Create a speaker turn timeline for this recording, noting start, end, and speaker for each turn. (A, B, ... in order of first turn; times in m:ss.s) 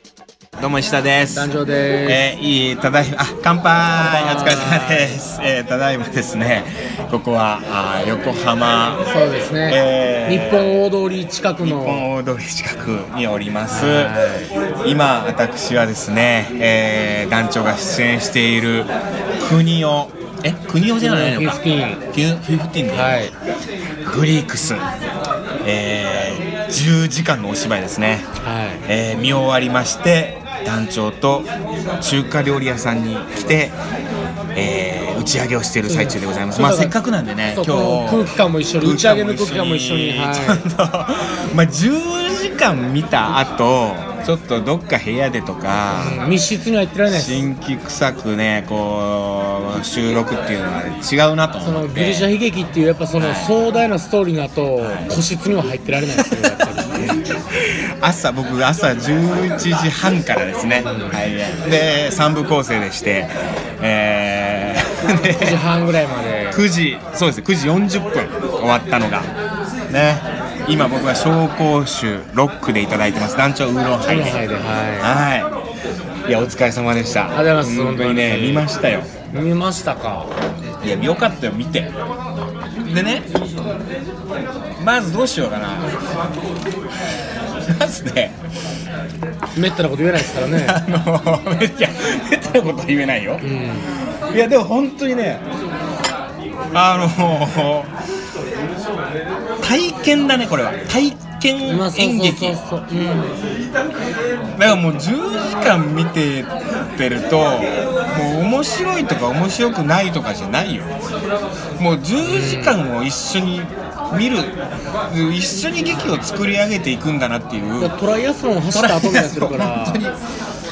0:00.6-0:09.0 A
0:01.3-0:02.2 B
0:03.9-0:05.2 B
0:09.1-0:12.1 B
0:09.7-0:10.8 A
0:11.6-0:14.2 A
0:13.7-0:14.5 B
0:14.8-0:23.3 A
0:21.0-0:22.0 B
0:22.9-0:23.3 B
0:24.0-0:24.9 A
0:25.6-0:28.3 A
0:28.4-0:28.8 B
0:28.8-0:31.5 A
0:32.0-0:33.8 A
0:34.5-0:46.2 A
0:35.8-0:36.9 B
0:37.5-0:40.6 B
0:45.9-0:47.4 B
0:47.1-0:52.3 A
0:51.6-0:57.2 B
0:53.2-0:53.6 A
0:54.8-0:55.1 A
0:56.1-1:05.6 A
1:00.8-1:01.2 B
1:05.2-1:06.7 B
1:06.5-1:09.3 A
1:09.9-1:14.4 A
1:14.0-1:15.1 B
1:15.0-1:15.5 A
1:16.2-1:19.1 A
1:17.3-1:18.7 B
1:19.3-1:20.3 B
1:20.8-1:21.9 A
1:22.8-1:23.3 A
1:24.8-1:25.9 A
1:27.7-1:28.4 A
1:29.5-1:30.8 B
1:30.4-1:35.4 A
1:33.4-1:33.9 B
1:36.7-1:37.9 A
1:39.6-1:42.6 A
1:41.6-1:43.3 B
1:44.6-1:50.9 A
1:51.8-1:57.9 A
1:52.2-1:52.8 B
1:57.8-2:00.0 B
1:58.7-2:00.2 A